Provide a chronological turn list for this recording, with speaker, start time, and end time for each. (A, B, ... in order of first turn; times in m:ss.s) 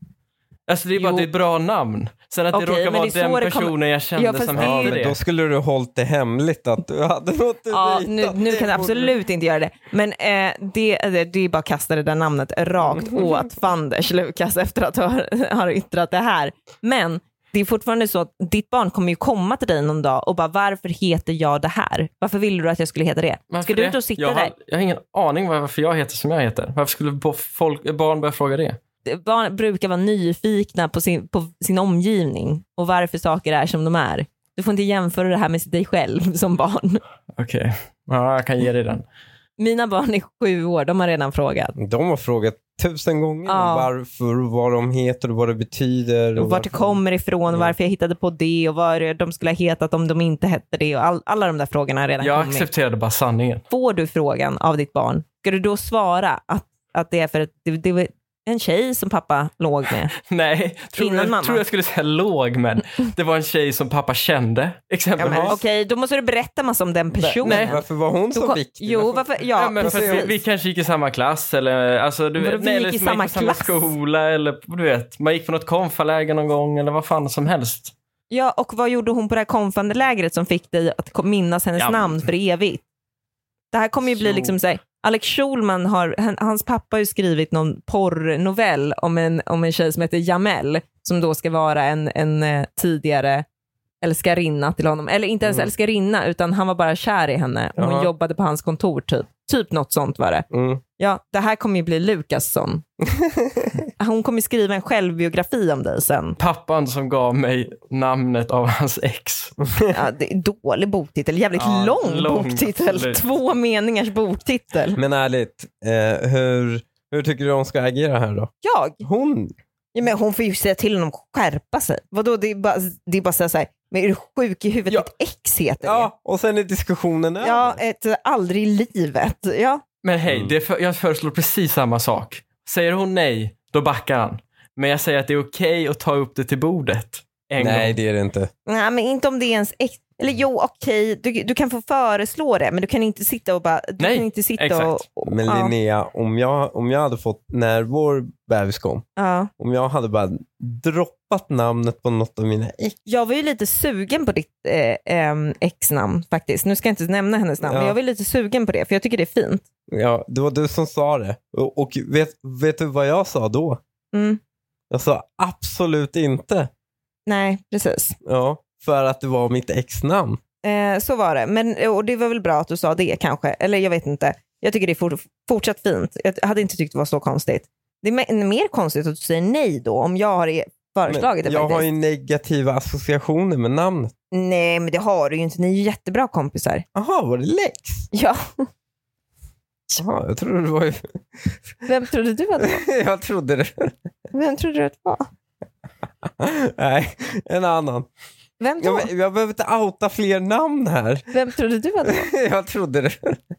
0:00.7-0:05.2 A
0:01.0-0:01.3 B
0:02.5-0:05.0 B
0:04.5-0:09.1 C
0:07.7-0:24.5 B
0:12.8-0:13.4 C
0:23.5-0:28.8 A
0:29.1-0:37.0 B
0:37.4-0:39.0 A
0:39.6-0:41.8 B
0:41.8-0:47.7 C
0:43.5-0:43.9 B
0:46.4-0:52.7 B
0:52.2-0:53.6 A
0:53.7-1:00.1 B
1:00.2-1:05.6 A
1:01.0-1:01.6 B
1:05.2-1:05.6 C
1:05.2-1:07.8 B
1:07.2-1:09.2 C
1:07.4-1:07.8 A
1:08.3-1:10.3 B
1:09.6-1:17.9 A
1:09.8-1:10.3 C
1:12.4-1:13.8 B
1:18.3-1:22.8 B
1:21.8-1:22.2 A
1:23.7-1:33.5 B
1:24.1-1:24.6 A
1:34.0-1:40.5 B
1:35.4-1:35.7 C
1:37.8-1:38.1 C
1:40.5-1:40.8 C
1:41.0-1:42.8 B
1:43.0-1:43.8 C
1:44.0-1:46.4 B
1:46.4-1:49.6 A
1:49.9-1:55.0 B
1:51.6-1:53.2 A
1:55.0-1:58.5 C
1:58.6-1:59.0 B
1:59.0-1:59.5 C
2:00.0-2:06.1 B
2:05.8-2:07.8 C
2:07.4-2:09.8 B
2:10.0-2:18.0 A
2:10.3-2:10.5 C
2:17.6-2:18.5 C
2:18.7-2:25.7 B
2:24.0-2:25.0 A
2:25.3-2:29.1 C
2:29.2-2:29.5 B
2:29.6-2:33.0 C
2:33.1-2:39.6 B
2:37.6-2:38.0 C
2:39.9-2:43.8 C
2:44.1-2:44.4 B
2:44.9-2:46.7 C
2:47.3-2:48.2 B
2:48.2-2:50.4 C
2:50.6-3:01.9 B
3:01.1-3:04.1 C
3:04.3-3:06.8 B
3:07.0-3:08.1 C
3:08.1-3:08.6 B
3:10.0-3:11.6 C
3:11.8-3:12.8 B
3:12.6-3:13.9 C
3:14.3-3:15.3 B
3:16.2-3:18.1 C
3:18.6-3:19.1 B
3:18.8-3:21.3 C
3:21.3-3:22.3 B
3:22.0-3:23.4 C